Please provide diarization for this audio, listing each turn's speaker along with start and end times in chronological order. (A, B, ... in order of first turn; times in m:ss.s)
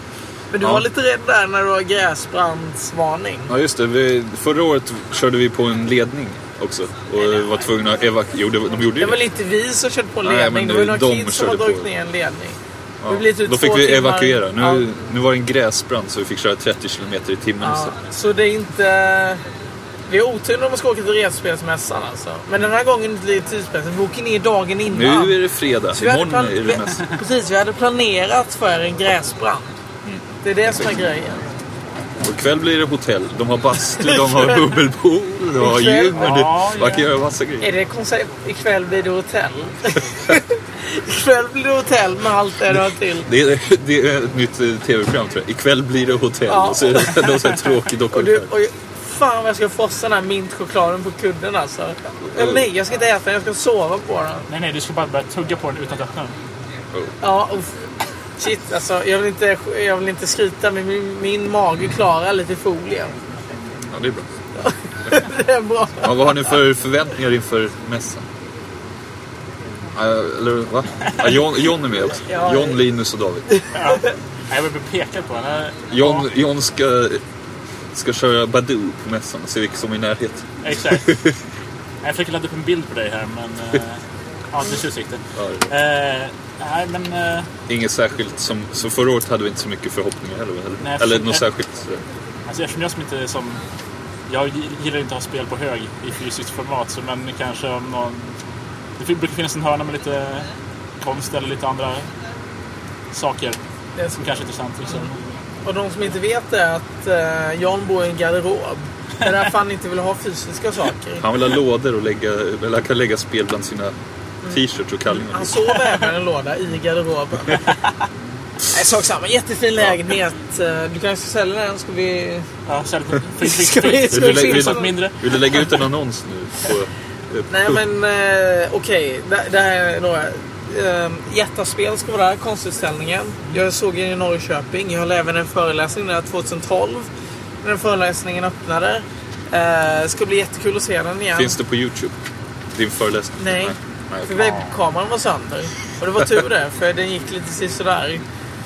0:00.5-0:03.6 A
0:00.6-0:00.9 B
0:03.5-0:09.2 B
0:09.0-0:14.9 A
0:10.2-0:11.9 B
0:13.0-0:17.9 B
0:17.6-0:19.4 A
0:20.1-0:25.4 A
0:24.9-0:27.0 B
0:25.9-0:29.7 A
0:30.0-0:30.9 B
0:30.4-0:31.4 A
0:32.2-0:37.8 B
0:34.0-0:34.7 A
0:35.6-0:36.4 A
0:36.2-0:37.1 C
0:37.6-0:43.3 A
0:43.3-0:48.5 B
0:46.5-0:47.3 A
0:48.1-0:54.5 A
0:52.3-0:52.6 B
0:54.5-0:56.4 C
0:57.2-0:57.8 A
0:58.4-1:03.1 A
1:03.9-1:04.3 B
1:04.6-1:06.5 A
1:06.0-1:08.3 B
1:10.0-1:13.5 B
1:12.2-1:12.8 A
1:13.5-1:14.0 A
1:13.8-1:16.3 C
1:15.9-1:17.2 B
1:17.9-1:21.4 B
1:20.6-1:21.1 C
1:22.0-1:24.0 C
1:24.5-1:27.5 C
1:25.4-1:25.7 B
1:27.7-1:32.0 B
1:30.8-1:31.4 C
1:32.5-1:33.6 C
1:34.3-1:38.3 C
1:39.0-1:40.5 C
1:41.0-1:42.1 C
1:43.1-1:43.6 C
1:44.0-1:44.3 A
1:44.2-1:45.2 C
1:45.6-1:51.3 A
1:51.2-1:54.0 B
1:54.4-1:57.7 A
1:54.5-1:55.5 B
1:58.7-2:02.5 A
2:02.7-2:05.2 C
2:03.4-2:05.0 A
2:04.1-2:07.8 B
2:07.5-2:17.1 A
2:17.6-2:21.6 A
2:21.4-2:22.2 B
2:22.7-2:24.5 B
2:23.4-2:23.8 A
2:24.3-2:28.2 A
2:24.4-2:24.7 C